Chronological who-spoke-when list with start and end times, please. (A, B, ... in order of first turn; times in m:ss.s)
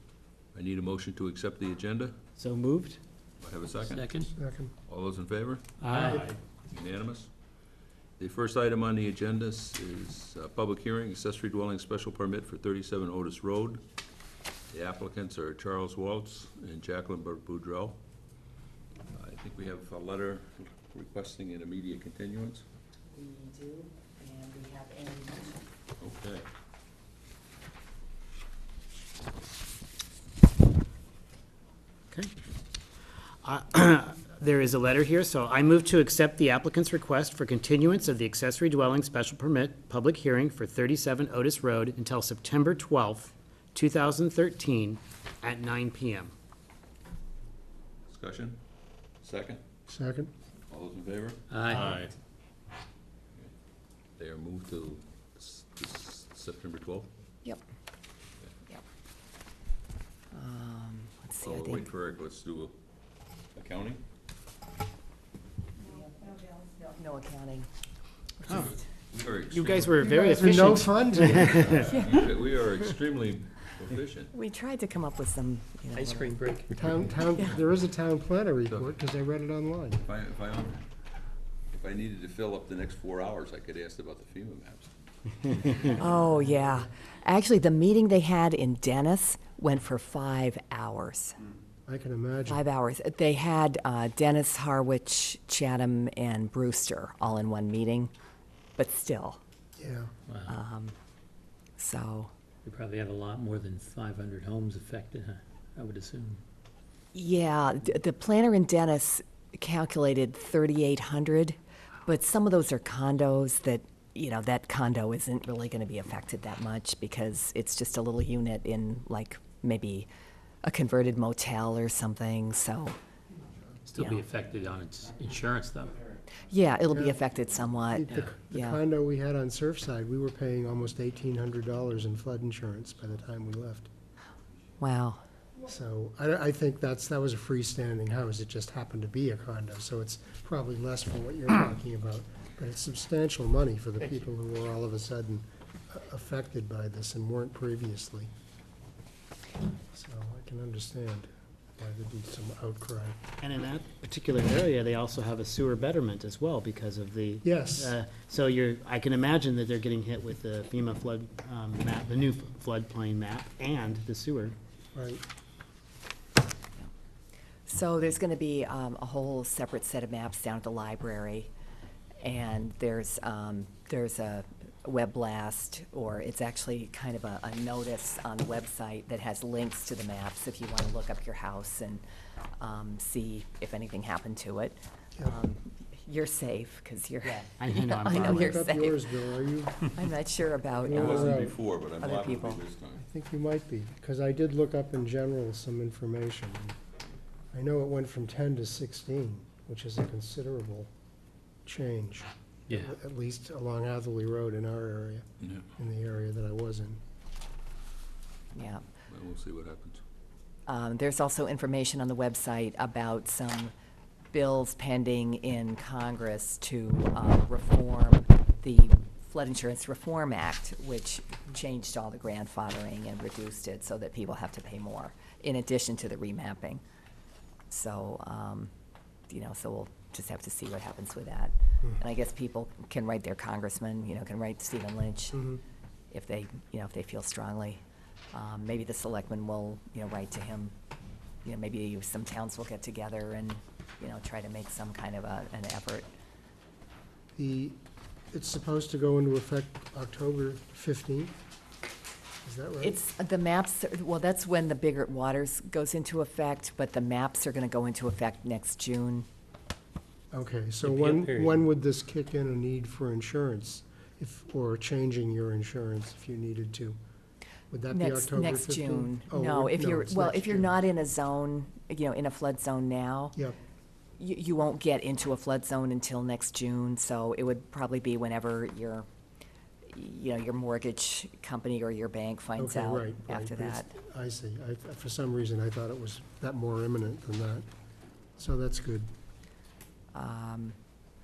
0:00.5-0:02.1 A
0:02.4-0:03.0 B
0:03.4-0:04.1 A
0:03.8-0:04.3 C
0:04.3-0:04.7 D
0:04.9-0:07.3 A
0:05.8-0:06.4 C
0:05.8-0:06.2 B
0:08.2-0:13.8 A
0:14.7-0:18.0 A
0:19.1-0:22.6 A
0:23.1-0:25.6 E
0:26.0-0:26.5 A
0:33.4-0:46.3 B
0:48.1-0:48.6 A
0:49.2-0:49.6 A
0:49.9-0:50.3 D
0:50.7-0:52.1 A
0:51.5-0:52.1 C
0:54.2-0:57.1 A
1:00.3-1:01.9 E
1:01.4-1:02.8 A
1:03.6-1:04.0 A
1:05.9-1:07.7 E
1:08.5-1:10.2 A
1:08.5-1:08.7 B
1:09.5-1:11.8 B
1:10.0-1:11.7 D
1:11.2-1:14.3 A
1:11.9-1:12.2 E
1:14.3-1:16.4 E
1:15.9-1:17.1 C
1:16.8-1:20.0 D
1:18.7-1:19.0 A
1:20.0-1:20.8 A
1:21.7-1:24.9 A
1:25.5-1:26.0 A
1:26.0-1:31.4 E
1:31.9-1:32.6 D
1:32.5-1:38.1 E
1:38.8-1:39.4 E
1:39.8-1:40.1 D
1:40.3-1:40.6 C
1:40.5-1:40.9 E
1:41.8-1:42.3 E
1:42.6-1:46.4 C
1:47.1-2:00.1 E
2:00.6-2:03.0 E
2:03.9-2:06.0 C
2:04.0-2:04.2 E
2:06.5-2:08.8 E
2:06.9-2:07.2 D
2:07.9-2:13.9 D
2:14.8-2:15.2 E
2:15.7-2:28.3 D
2:29.9-2:33.2 D
2:33.4-2:44.6 B
2:37.4-2:38.0 D
2:44.9-2:45.2 D
2:47.7-2:51.5 E
2:52.2-3:02.0 E
3:02.6-3:09.0 E
3:07.2-3:08.6 B
3:08.3-3:10.0 D
3:09.8-3:12.6 E
3:10.8-3:11.6 D
3:10.9-3:13.0 A
3:13.0-3:16.8 D
3:17.5-3:20.9 D
3:21.7-3:25.3 D
3:22.7-3:23.0 C
3:25.4-3:25.7 A
3:25.8-3:27.0 D
3:28.5-3:28.8 E
3:29.1-3:30.0 A
3:30.7-3:33.7 E
3:34.3-3:46.8 E
3:47.7-3:48.7 E
3:49.3-3:55.4 E
3:55.3-3:55.6 D
3:56.1-3:57.8 E
3:58.3-4:00.7 E
4:01.4-4:06.1 E
4:07.4-4:07.8 D
4:08.3-4:11.3 D
4:12.4-4:13.0 D
4:12.8-4:19.3 E
4:20.3-4:27.0 D
4:20.8-4:21.6 C
4:27.7-4:30.8 D
4:27.9-4:33.4 E
4:34.2-4:39.1 E
4:39.9-4:43.9 E
4:42.6-4:47.7 D
4:48.4-4:49.1 D
4:50.1-4:50.8 E